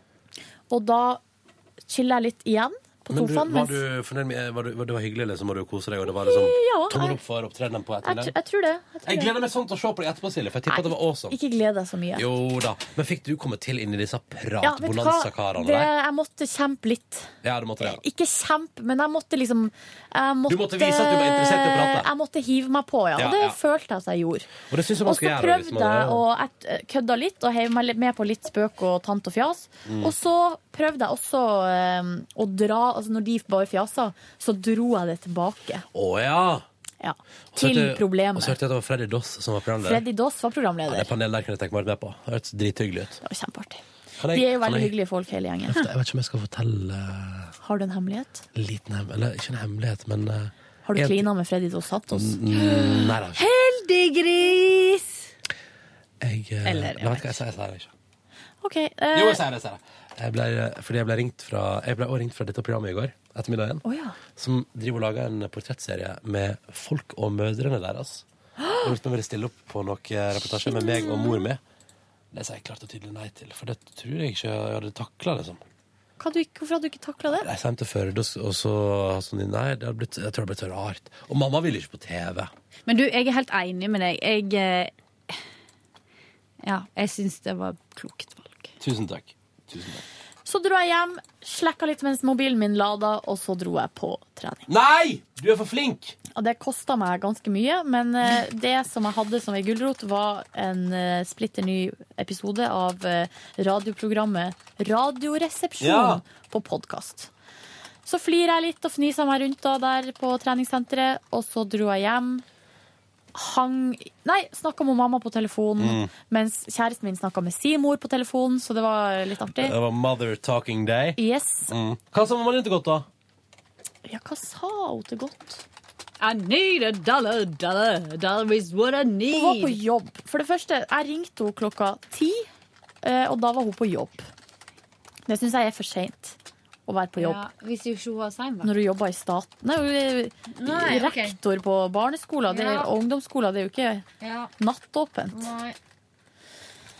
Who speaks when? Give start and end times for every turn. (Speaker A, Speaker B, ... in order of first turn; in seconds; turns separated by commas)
Speaker A: 0.7-1.2, Speaker A: 1.9-3.8, Speaker B: 3.1-8.3, Speaker A: 6.0-7.2, Speaker A: 8.0-9.3, Speaker B: 9.0-11.4, Speaker A: 10.7-12.2, Speaker B: 12.1-15.9, Speaker A: 14.6-24.5, Speaker B: 17.4-18.0, Speaker B: 20.5-22.1, Speaker B: 23.2-23.6, Speaker B: 24.7-26.2, Speaker A: 25.0-35.9, Speaker B: 29.9-30.1, Speaker B: 35.9-36.6, Speaker A: 37.0-38.6, Speaker B: 37.5-40.0, Speaker A: 39.8-41.1, Speaker B: 40.9-43.2, Speaker A: 43.2-45.9, Speaker B: 44.2-44.9, Speaker B: 45.7-47.5, Speaker A: 47.6-48.4, Speaker B: 48.5-51.3, Speaker A: 50.9-52.4, Speaker B: 52.1-53.4, Speaker C: 52.6-55.2, Speaker B: 56.2-57.9, Speaker C: 56.6-57.4, Speaker A: 58.6-59.4, Speaker B: 59.1-63.8, Speaker A: 63.8-64.1, Speaker B: 64.3-68.2, Speaker A: 68.6-68.9, Speaker B: 68.8-71.6, Speaker A: 70.7-71.3, Speaker B: 72.3-75.6, Speaker A: 76.2-77.5, Speaker B: 77.3-82.5, Speaker C: 82.9-85.3, Speaker C: 86.6-88.7, Speaker B: 88.8-90.0, Speaker A: 90.4-94.7, Speaker B: 94.7-96.2, Speaker A: 96.3-107.3, Speaker B: 105.8-106.2, Speaker A: 108.0-112.4, Speaker A: 113.3-119.7, Speaker B: 115.8-116.1, Speaker B: 119.6-123.1, Speaker A: 121.2-121.7, Speaker A: 124.0-125.6, Speaker C: 126.2-129.8, Speaker A: 129.3-132.5, Speaker A: 133.0-134.3, Speaker A: 135.3-136.3, Speaker A: 136.9-137.4, Speaker C: 137.2-138.7, Speaker A: 138.6-144.0, Speaker C: 140.5-141.4, Speaker C: 142.5-142.9, Speaker C: 144.2-144.5, Speaker A: 144.6-145.5, Speaker C: 145.3-145.8